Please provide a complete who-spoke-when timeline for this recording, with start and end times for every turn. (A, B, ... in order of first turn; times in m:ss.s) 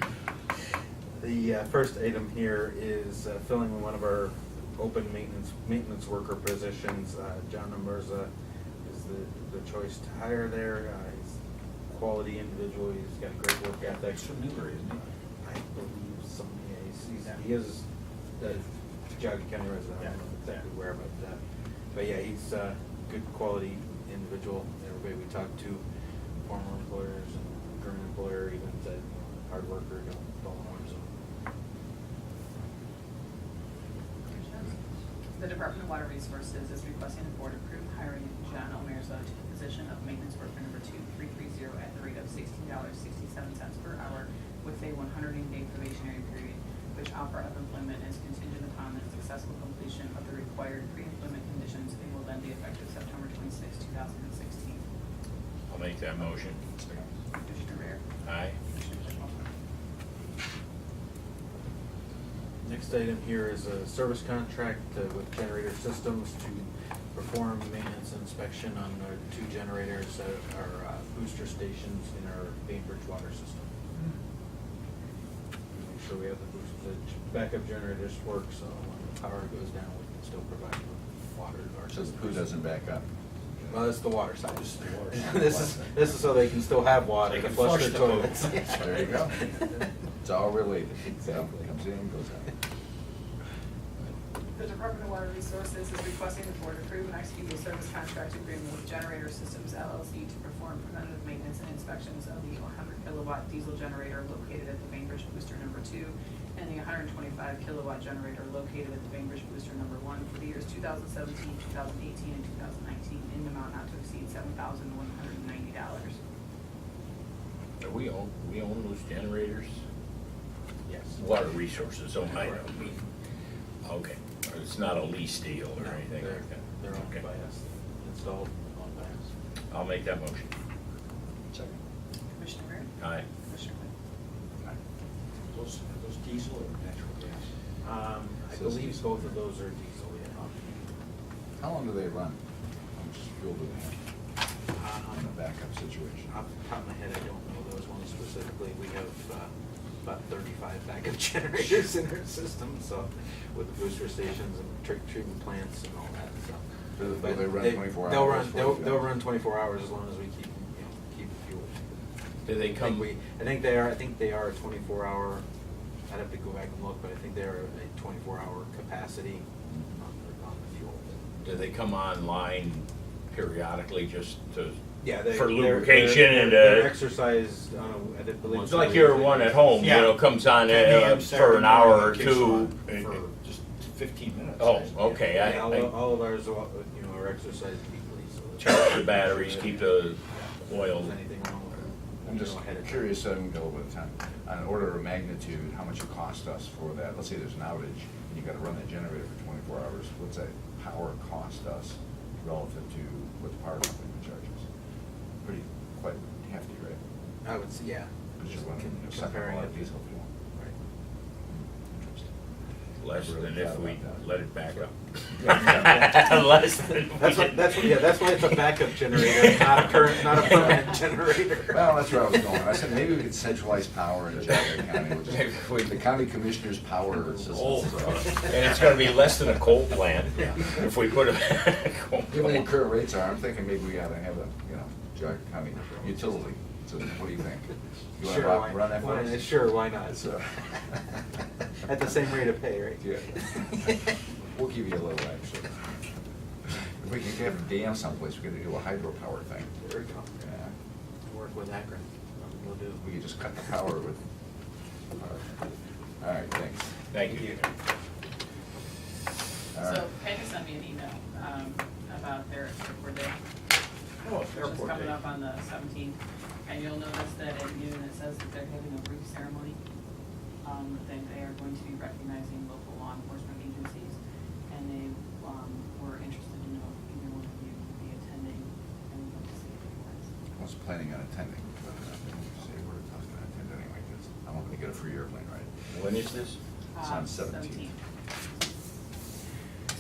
0:01.2-0:08.3 A
0:08.8-0:11.4 A
0:11.9-0:14.8 A
0:14.1-0:15.1 B
0:15.4-0:17.8 A
0:18.4-0:21.4 A
0:21.9-0:25.8 A
0:26.4-0:31.1 A
0:34.3-0:34.8 C
0:35.3-0:54.8 C
0:55.7-0:56.8 D
0:57.4-0:58.0 C
0:58.2-0:58.6 D
0:58.7-0:59.4 C
1:02.6-1:13.7 A
1:15.7-1:22.6 A
1:21.9-1:23.1 E
1:23.7-1:29.7 A
1:24.6-1:25.7 B
1:27.2-1:28.8 B
1:28.7-1:29.4 E
1:30.2-1:32.5 E
1:34.5-1:56.2 C
1:57.8-1:59.8 D
2:00.9-2:01.2 A
2:01.2-2:02.9 D
2:02.2-2:03.0 A
2:03.8-2:07.2 D
2:05.8-2:09.3 A
2:09.7-2:10.5 D
2:12.4-2:12.9 C
2:13.0-2:13.3 D
2:13.5-2:13.9 C
2:15.5-2:17.5 B
2:17.8-2:20.7 A
2:18.5-2:19.2 E
2:21.6-2:22.4 E
2:23.0-2:24.0 E
2:24.8-2:25.3 A
2:25.1-2:26.3 E
2:26.3-2:29.5 A
2:30.0-2:36.6 A
2:37.0-2:39.1 E
2:37.2-2:42.0 A
2:42.5-2:43.1 D
2:42.6-2:45.4 A
2:46.1-2:51.2 A
2:51.4-2:57.0 D
2:55.0-2:59.9 A
2:58.6-2:59.1 B
2:58.6-3:02.8 D
2:59.7-3:05.2 B
3:04.6-3:06.0 D
3:05.3-3:13.2 A
3:08.6-3:11.2 D
3:12.2-3:24.6 E
3:25.4-3:27.0 E
3:27.4-3:29.8 A
3:28.4-3:30.3 E
3:31.5-3:32.1 E
3:33.0-3:38.7 D
3:33.1-3:34.3 E
3:35.4-3:36.0 E
3:37.1-3:42.1 A
3:41.7-3:48.5 E
3:45.2-3:46.0 D
3:47.5-3:52.7 D
3:52.3-4:00.5 E
3:58.2-4:00.3 A
4:01.8-4:04.1 A
4:03.0-4:03.8 E
4:04.5-4:05.7 E
4:07.0-4:09.7 E
4:09.8-4:10.4 A
4:10.4-4:10.7 E
4:11.2-4:13.0 A
4:13.0-4:14.2 E
4:15.1-4:15.6 E
4:16.2-4:17.0 E
4:17.1-4:17.6 D
4:19.7-4:20.1 E
4:19.8-4:23.4 C
4:24.2-4:25.2 D
4:24.5-4:29.8 C
4:30.6-4:40.3 C
4:40.6-4:45.7 E
4:45.9-4:46.6 D
4:46.9-4:48.0 C
4:47.0-4:47.9 E